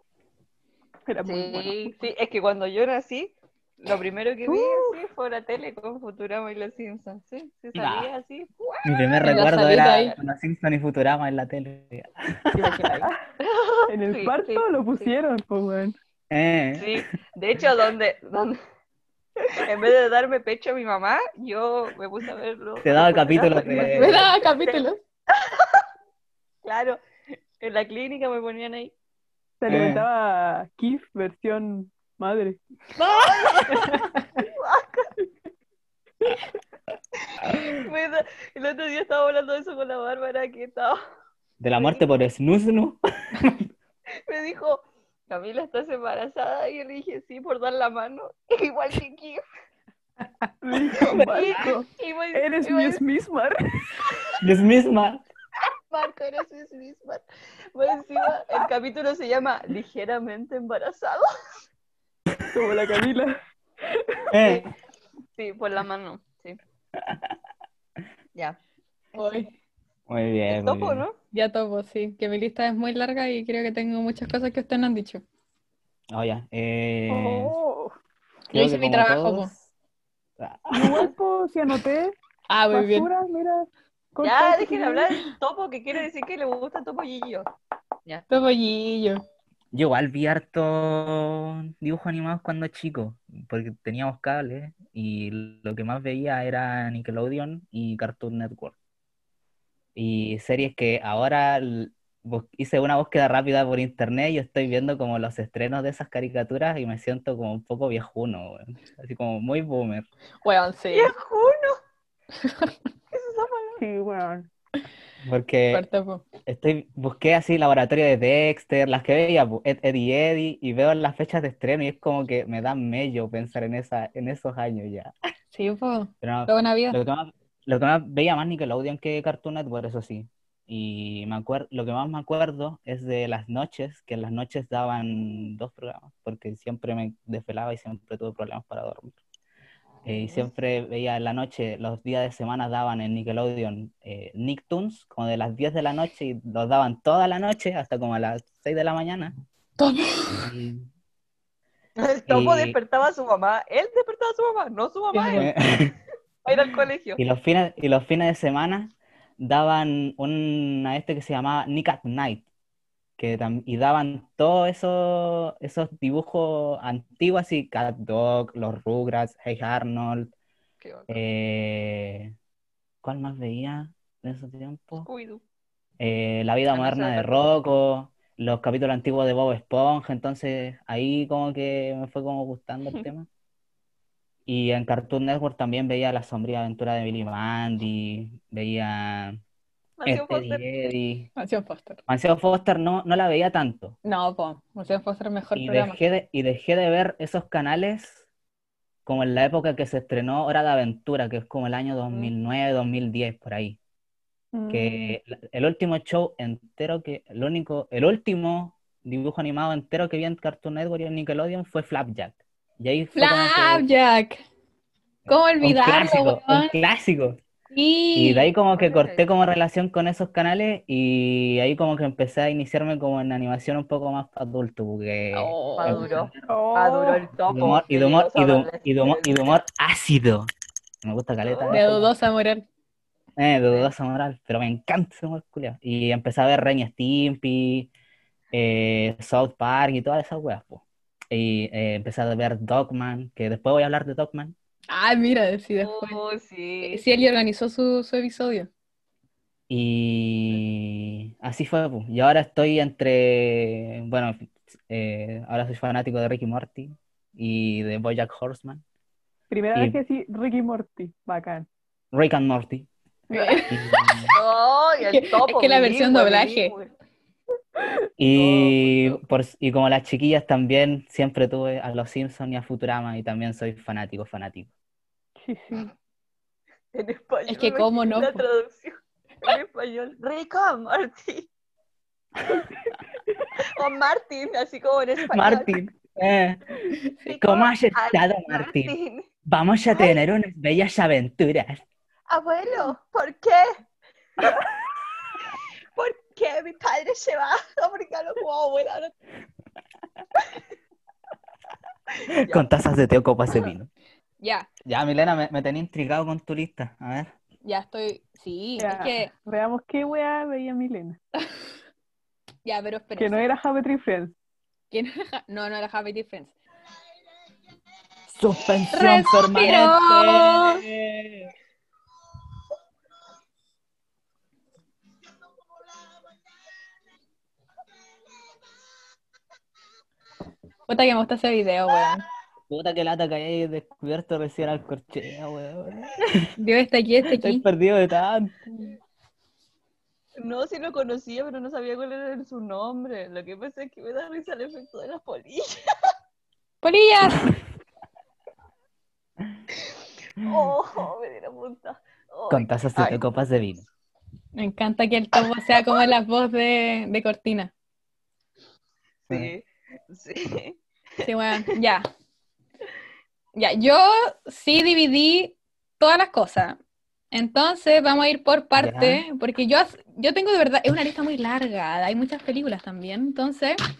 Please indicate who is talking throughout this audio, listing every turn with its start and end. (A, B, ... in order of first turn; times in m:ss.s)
0:01.1-0:02.0 A
0:01.2-0:10.2 B
0:04.5-0:05.0 A
0:07.8-0:08.1 C
0:08.8-0:12.8 C
0:09.2-0:10.1 D
0:12.5-0:13.1 D
0:13.4-0:15.1 B
0:13.9-0:15.9 A
0:16.3-0:17.0 C
0:16.7-0:18.6 B
0:19.5-0:24.8 B
0:22.8-0:24.3 C
0:23.9-0:25.0 D
0:25.3-0:25.8 B
0:26.6-0:27.0 B
0:27.6-0:28.9 B
0:29.6-0:32.6 A
0:29.7-0:30.1 C
0:33.0-0:33.8 B
0:33.7-0:34.2 D
0:34.4-0:35.1 B
0:37.6-0:41.0 B
0:41.6-0:43.7 C
0:41.7-0:42.1 B
0:44.3-0:49.4 B
0:50.6-0:53.6 A
0:51.0-0:51.5 C
0:51.0-0:53.0 B
0:54.4-0:55.2 C
0:55.9-0:57.2 B
0:57.7-1:01.3 B
1:02.5-1:03.3 A
1:04.3-1:04.7 C
1:05.4-1:06.6 B
1:07.0-1:07.3 C
1:09.1-1:09.5 D
1:10.1-1:11.0 C
1:10.5-1:11.2 B
1:11.3-1:15.2 D
1:16.1-1:17.6 C
1:17.1-1:17.9 A
1:18.5-1:19.7 C
1:18.5-1:19.5 D
1:20.4-1:21.0 C
1:20.7-1:22.1 A
1:22.5-1:23.1 D
1:22.7-1:25.1 A
1:24.2-1:27.5 B
1:28.3-1:29.2 D
1:29.7-1:38.7 C
1:40.0-1:50.0 C
1:50.4-1:51.1 D
1:50.9-1:51.8 B
1:52.4-1:52.7 D
1:53.1-1:53.8 B
1:53.8-1:54.5 A
1:55.2-1:55.8 C
1:55.7-1:56.2 D
1:56.4-2:05.1 C
2:05.5-2:07.0 D
2:06.2-2:19.2 C
2:20.0-2:29.3 C
2:29.8-2:30.4 D
2:30.4-2:30.9 C
2:32.0-2:35.5 B
2:32.3-2:32.8 C
2:35.1-2:35.5 D
2:35.4-2:35.9 C
2:36.4-2:37.2 B
2:37.2-2:42.4 C
2:43.2-2:50.3 C
2:50.8-2:51.2 B
2:51.1-2:52.3 C
2:53.0-2:55.1 C
2:55.0-2:55.4 B
2:56.0-3:03.3 C
2:56.7-2:57.5 B
3:04.5-3:09.4 C
3:10.0-3:10.6 B
3:10.0-3:11.3 C
3:11.4-3:12.0 D
3:12.1-3:14.0 C
3:14.0-3:16.0 D
3:15.6-3:18.2 C
3:19.0-3:23.8 C
3:24.5-3:25.2 A
3:24.7-3:33.9 C
3:33.1-3:34.4 D
3:35.3-3:36.7 D
3:35.6-3:37.4 C
3:37.7-3:38.5 D
3:38.2-3:46.3 C
3:38.8-3:39.3 B
3:45.4-3:46.0 D
3:45.7-3:49.6 B
3:46.5-3:47.3 A
3:47.5-3:50.5 C
3:51.0-3:52.1 C
3:51.4-3:51.8 B
3:51.7-3:52.6 D
3:53.4-3:57.9 C
3:58.5-4:04.5 C
4:04.9-4:06.2 D
4:05.8-4:07.0 B
4:06.8-4:08.7 D
4:09.7-4:18.8 C
4:19.5-4:21.7 A
4:22.1-4:22.9 C
4:23.3-4:23.7 A
4:23.3-4:24.0 D
4:23.7-4:24.3 C
4:24.3-4:26.9 B
4:25.0-4:26.7 D
4:28.2-4:34.7 C
4:28.3-4:29.2 B
4:35.4-4:35.9 A
4:36.9-4:41.5 B
4:37.5-4:38.4 D
4:43.7-4:45.8 B
4:45.2-4:46.6 C
4:47.3-4:49.3 B
4:47.3-4:48.9 C
4:49.4-4:51.8 C
4:49.9-4:50.2 B
4:52.3-4:53.7 B
4:56.0-4:59.1 B
5:00.4-5:00.6 B
5:02.3-5:02.7 B
5:02.4-5:03.9 C
5:04.4-5:04.7 D
5:04.8-5:07.3 C
5:07.6-5:09.3 D
5:08.8-5:11.2 A
5:12.6-5:13.5 D
5:13.2-5:14.3 A
5:14.9-5:16.5 D
5:18.3-5:21.5 C
5:18.9-5:20.8 D
5:30.9-5:32.2 D
5:32.7-5:36.4 C
5:36.6-5:37.6 D
5:37.3-5:38.5 C
5:40.4-5:45.7 B
5:46.8-5:47.5 D
5:50.4-5:53.2 B
5:52.5-5:53.8 C
5:54.6-5:57.7 D
5:59.2-6:01.7 B
6:01.2-6:02.0 D
6:03.6-6:06.8 D
6:07.3-6:13.8 D
6:08.8-6:09.2 C